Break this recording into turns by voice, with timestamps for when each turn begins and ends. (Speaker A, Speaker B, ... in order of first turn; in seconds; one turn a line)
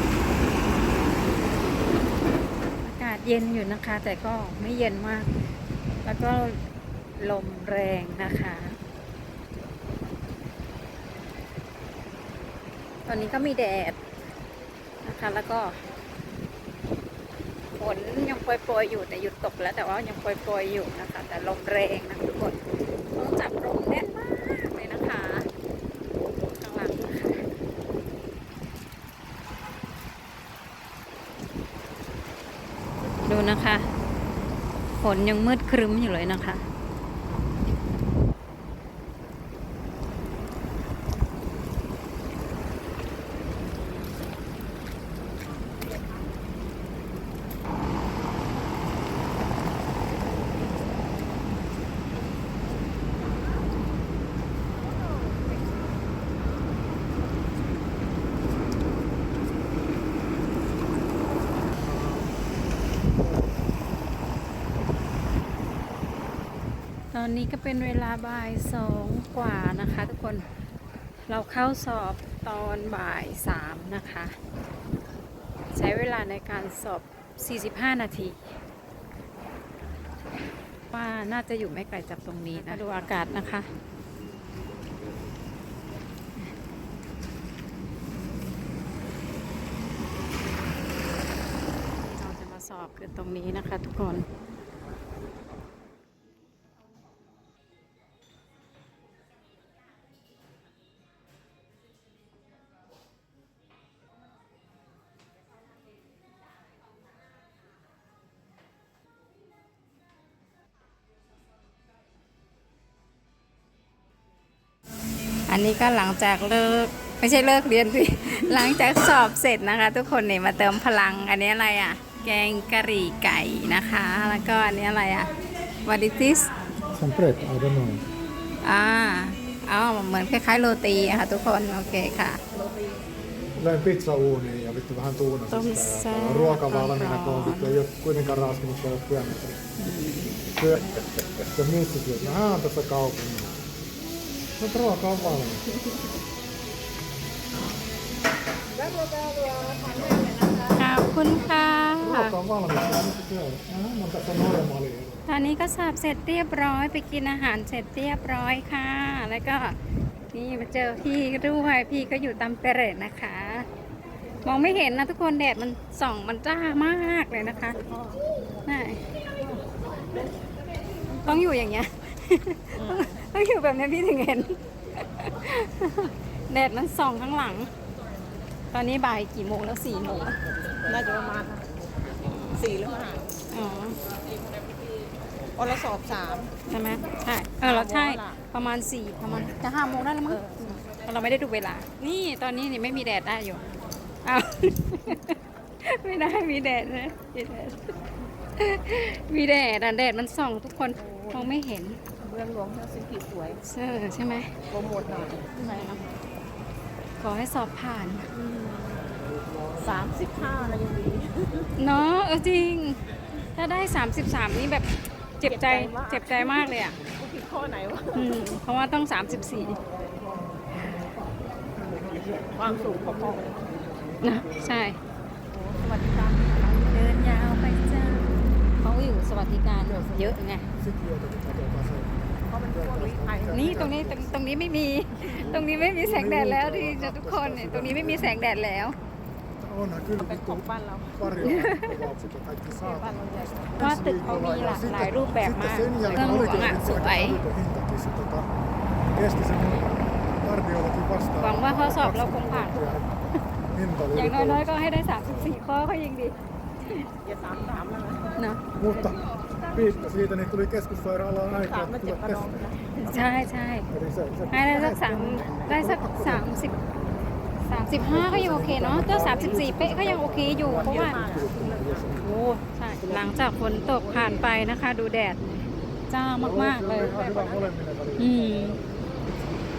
Speaker A: 2.8-5.4
Speaker A: 6.0-6.6
Speaker A: 7.2-8.8
Speaker A: 13.1-14.0
Speaker A: 15.0-15.7
Speaker A: 17.8-22.6
Speaker A: 23.1-25.5
Speaker A: 26.4-27.5
Speaker A: 33.2-33.9
Speaker A: 35.0-36.6
Speaker A: 67.1-70.5
Speaker A: 71.2-74.4
Speaker A: 75.7-78.5
Speaker A: 80.9-83.7
Speaker A: 92.1-94.3
Speaker A: 115.5-125.3
Speaker A: 125.8-126.5
Speaker B: 126.9-128.1
Speaker A: 128.6-132.4
Speaker C: 132.6-132.9
Speaker B: 133.6-139.6
Speaker A: 135.5-137.8
Speaker A: 139.8-140.5
Speaker B: 140.5-143.6
Speaker B: 144.6-145.7
Speaker C: 148.8-150.7
Speaker A: 150.7-152.4
Speaker B: 152.0-155.2
Speaker A: 155.3-159.8
Speaker A: 160.3-163.7
Speaker A: 164.4-168.0
Speaker C: 167.8-168.2
Speaker A: 168.7-169.1
Speaker A: 171.2-177.7
Speaker C: 172.8-173.2
Speaker A: 178.7-180.4
Speaker C: 180.8-181.7
Speaker A: 182.2-182.6
Speaker C: 182.5-183.3
Speaker A: 183.5-184.0
Speaker C: 185.6-186.5
Speaker A: 186.7-193.7
Speaker C: 187.6-188.4
Speaker C: 190.3-190.8
Speaker A: 194.2-198.0
Speaker A: 198.6-202.0
Speaker C: 201.0-201.5
Speaker C: 202.2-203.6
Speaker A: 203.6-204.6
Speaker C: 204.7-206.2
Speaker A: 205.6-206.0
Speaker A: 207.2-208.3
Speaker C: 208.3-209.2
Speaker C: 209.8-211.7
Speaker A: 211.8-217.0
Speaker C: 215.4-218.3
Speaker A: 218.2-219.8
Speaker C: 222.2-223.8
Speaker A: 224.2-225.0
Speaker C: 225.5-226.8
Speaker A: 226.6-230.7
Speaker B: 229.8-234.4
Speaker C: 232.5-234.0
Speaker A: 233.5-239.0
Speaker C: 235.2-235.6
Speaker B: 235.5-238.4
Speaker B: 239.6-248.5
Speaker C: 240.2-241.6
Speaker A: 241.4-242.0
Speaker C: 242.7-243.8
Speaker A: 243.8-247.4
Speaker B: 249.1-255.5
Speaker A: 251.4-253.2
Speaker A: 254.1-257.1
Speaker C: 257.2-258.4
Speaker A: 258.4-258.8
Speaker B: 258.7-262.5
Speaker C: 259.4-260.2
Speaker C: 261.6-263.4
Speaker A: 263.1-263.9
Speaker B: 263.9-267.0
Speaker A: 264.5-266.8
Speaker A: 267.6-271.2
Speaker B: 267.9-272.3
Speaker C: 270.7-272.2
Speaker A: 272.2-277.2
Speaker C: 273.0-274.5
Speaker B: 276.3-278.6
Speaker C: 276.6-277.8
Speaker A: 278.2-278.8
Speaker C: 278.5-279.4